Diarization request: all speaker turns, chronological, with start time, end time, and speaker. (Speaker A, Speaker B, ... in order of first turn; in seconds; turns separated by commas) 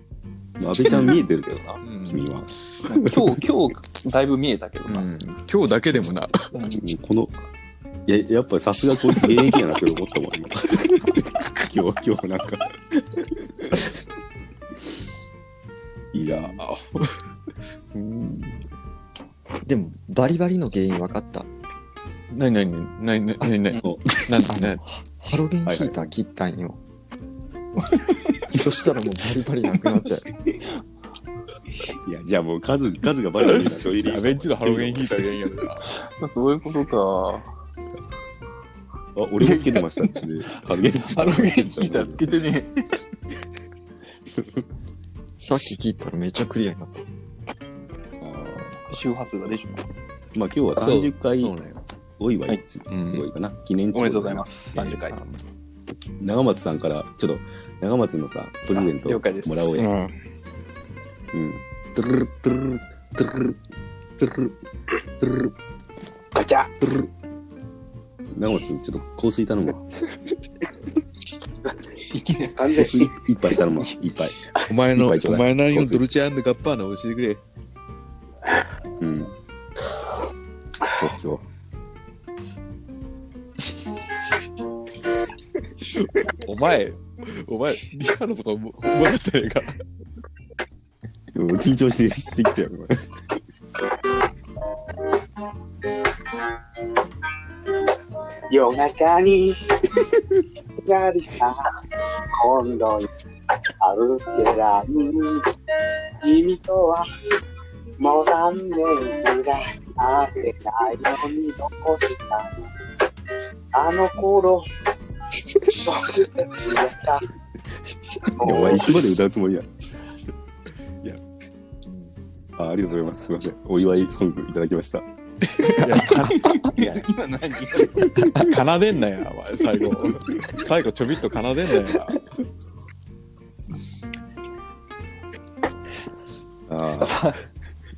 Speaker A: 0.6-3.2, Speaker B: 1.8-2.3, Speaker C: 2.9-5.1, Speaker B: 4.8-6.5, Speaker C: 6.5-6.9, Speaker A: 6.7-7.4, Speaker A: 8.1-13.9, Speaker A: 16.1-16.6, Speaker B: 16.1-17.2, Speaker B: 17.9-18.6, Speaker D: 19.6-21.5, Speaker B: 22.3-24.8, Speaker A: 23.8-24.5, Speaker D: 24.4-26.8, Speaker A: 25.6-26.1, Speaker D: 28.5-30.2, Speaker A: 31.9-35.3, Speaker B: 33.5-35.9, Speaker C: 35.9-37.5, Speaker A: 39.1-42.3, Speaker C: 39.4-42.8, Speaker A: 44.4-44.6, Speaker D: 45.4-47.0, Speaker A: 48.2-49.0, Speaker C: 48.8-49.9, Speaker A: 50.3-51.5, Speaker B: 50.8-51.8, Speaker A: 52.2-54.4, Speaker B: 52.9-53.3, Speaker C: 53.9-55.2, Speaker B: 54.7-55.4, Speaker A: 56.2-60.0, Speaker C: 58.7-60.1, Speaker A: 61.3-63.5, Speaker A: 64.2-64.5, Speaker A: 65.2-65.5, Speaker E: 66.3-66.7, Speaker A: 66.8-67.1, Speaker A: 68.3-69.8, Speaker B: 72.2-72.5, Speaker E: 72.5-73.1, Speaker A: 72.7-76.0, Speaker B: 74.7-77.4, Speaker A: 79.0-79.3, Speaker A: 80.8-81.4, Speaker B: 86.0-89.7, Speaker A: 91.3-93.0, Speaker E: 98.5-100.0, Speaker E: 100.8-101.6, Speaker E: 102.3-103.1, Speaker E: 103.8-105.4, Speaker E: 106.2-107.0, Speaker E: 108.0-112.6, Speaker E: 113.7-114.6, Speaker E: 115.7-117.2, Speaker E: 118.3-119.0, Speaker A: 118.4-119.7, Speaker A: 122.5-125.0, Speaker B: 125.6-127.1, Speaker D: 125.7-126.0, Speaker C: 126.3-128.3, Speaker A: 127.9-128.4, Speaker B: 128.2-132.3, Speaker A: 136.7-137.2, Speaker C: 137.0-137.4